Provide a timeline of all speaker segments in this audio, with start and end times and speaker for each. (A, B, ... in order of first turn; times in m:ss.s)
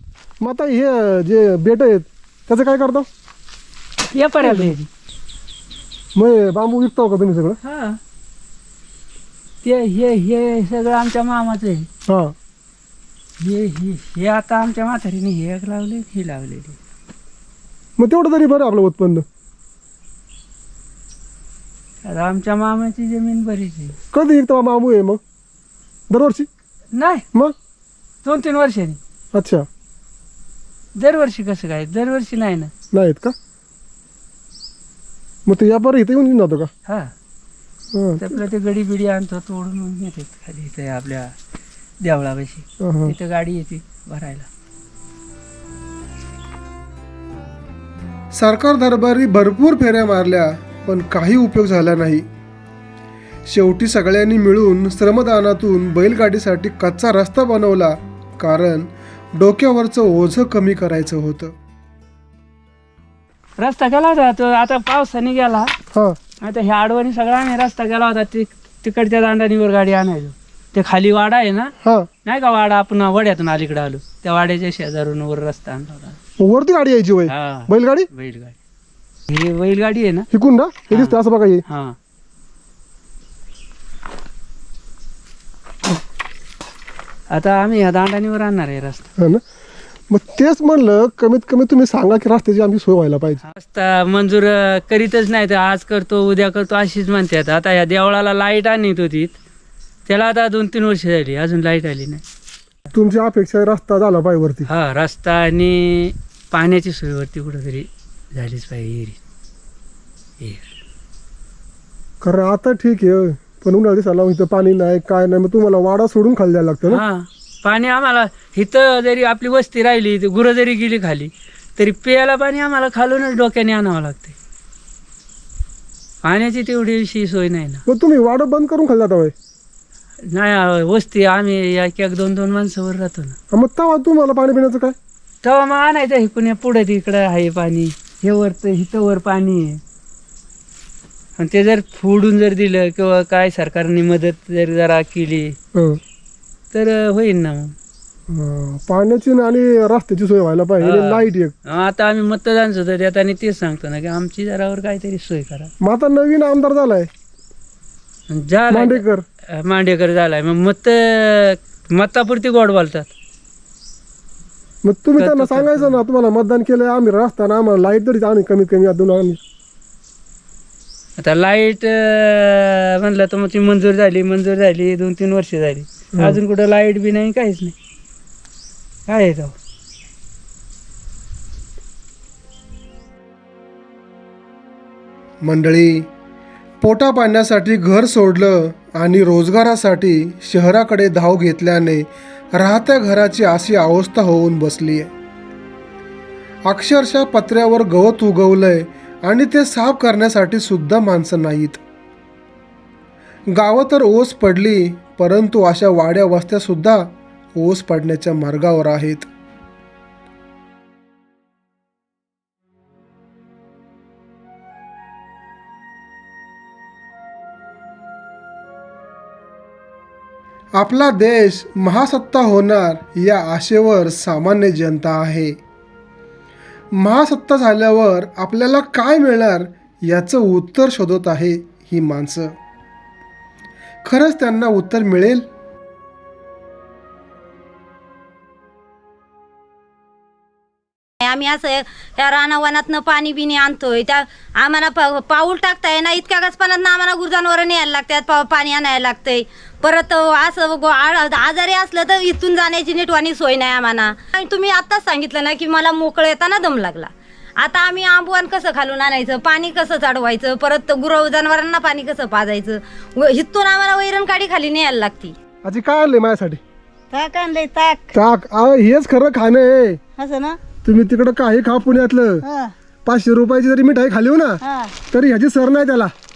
0:00.4-0:03.1 A
0:04.1-0:04.9 B
0:04.4-0:04.7 A
0:06.2-0:07.6 A
0:07.6-0:08.0 B
0:09.6-0:11.9 B
0:12.1-0:12.4 A
0:13.4-0:16.8 B
0:18.0-0:19.3 A
0:22.0-0:24.0 B
0:24.1-0:25.2 A
0:26.1-0:26.5 A
0:26.9-0:27.2 B
0:28.2-0:29.0 B
0:29.3-0:29.7 A
0:31.0-0:32.7 B
0:32.9-0:33.4 A
0:35.5-0:36.7 A
0:36.9-0:37.1 B
0:37.9-0:38.4 A
0:38.2-0:41.4 B
0:42.0-0:44.5 B
0:42.8-0:43.2 A
0:48.3-0:52.3 A
0:53.5-1:01.6 A
1:03.6-1:05.7 B
1:05.9-1:06.2 A
1:06.4-1:11.7 B
1:11.8-1:12.1 A
1:12.2-1:16.2 B
1:16.4-1:18.1 A
1:17.3-1:18.6 B
1:19.3-1:20.3 B
1:20.3-1:21.6 A
1:20.9-1:22.0 B
1:27.3-1:29.1 B
1:29.2-1:29.4 A
1:30.1-1:33.4 A
1:33.4-1:39.4 B
1:40.1-1:42.2 B
1:42.9-1:44.7 A
1:44.7-1:49.2 B
1:50.4-1:50.7 B
1:52.2-1:57.0 A
1:56.9-2:04.4 B
2:06.2-2:07.8 B
2:07.9-2:09.3 A
2:10.3-2:13.4 B
2:13.5-2:15.0 A
2:15.4-2:19.8 B
2:21.4-2:25.6 B
2:25.7-2:26.0 A
2:26.7-2:27.8 B
2:28.3-2:31.5 A
2:30.8-2:35.7 B
2:35.8-2:37.1 A
2:38.3-2:43.1 B
2:38.7-2:39.3 A
2:44.8-2:49.4 A
2:45.2-2:46.0 B
2:51.2-2:57.8 B
2:59.1-2:59.6 B
3:05.4-3:06.1 A
3:06.8-3:15.1 A
3:16.6-3:21.8 A
3:23.5-3:29.3 A
3:40.8-3:45.6 A
3:46.9-3:52.6 A
3:54.0-3:55.5 A
4:01.2-4:25.4 C
4:25.6-4:26.6 A
4:27.1-4:28.1 D
4:28.1-4:30.0 A
4:30.2-4:30.6 D
4:30.8-4:32.4 A
4:32.4-4:32.7 D
4:33.0-4:36.1 A
4:34.6-4:35.0 D